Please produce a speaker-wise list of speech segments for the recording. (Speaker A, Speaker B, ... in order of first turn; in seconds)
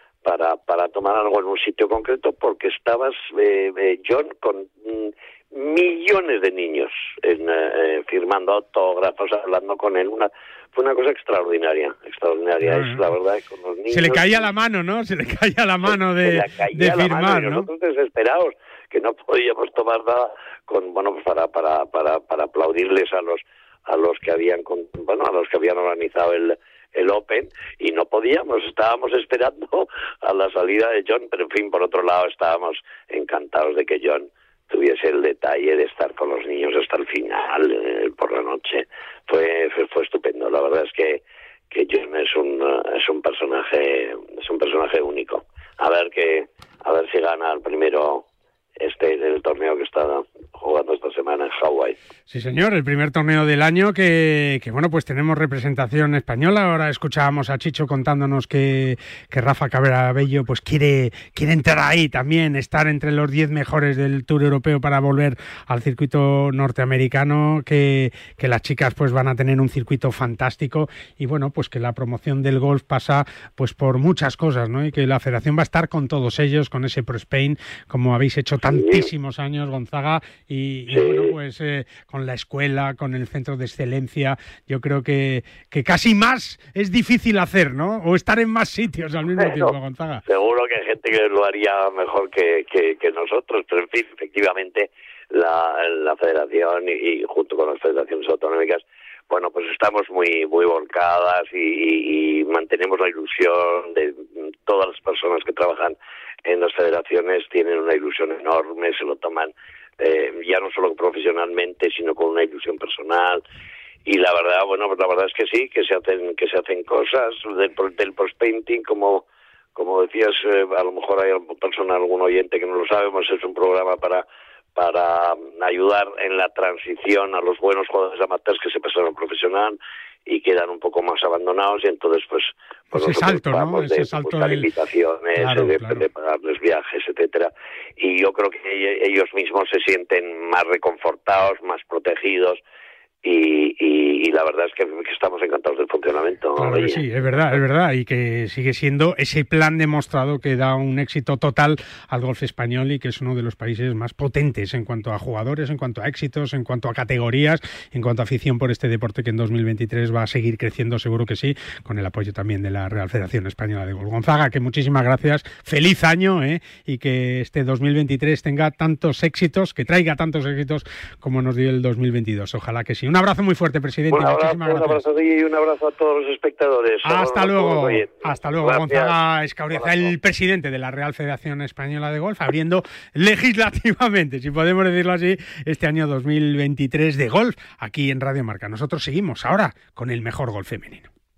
Speaker A: 0.2-14.4, 15.9-48.3, 48.8-52.0, 78.7-79.1, 80.9-81.3, 89.4-89.7, 90.3-113.4, 114.0-142.6, 143.2-147.0, 174.1-179.1, 179.7-180.1
Speaker B: 12.6-13.1, 13.9-17.7, 52.3-90.2, 132.9-134.7, 135.4-136.0, 146.6-175.0, 177.1-191.1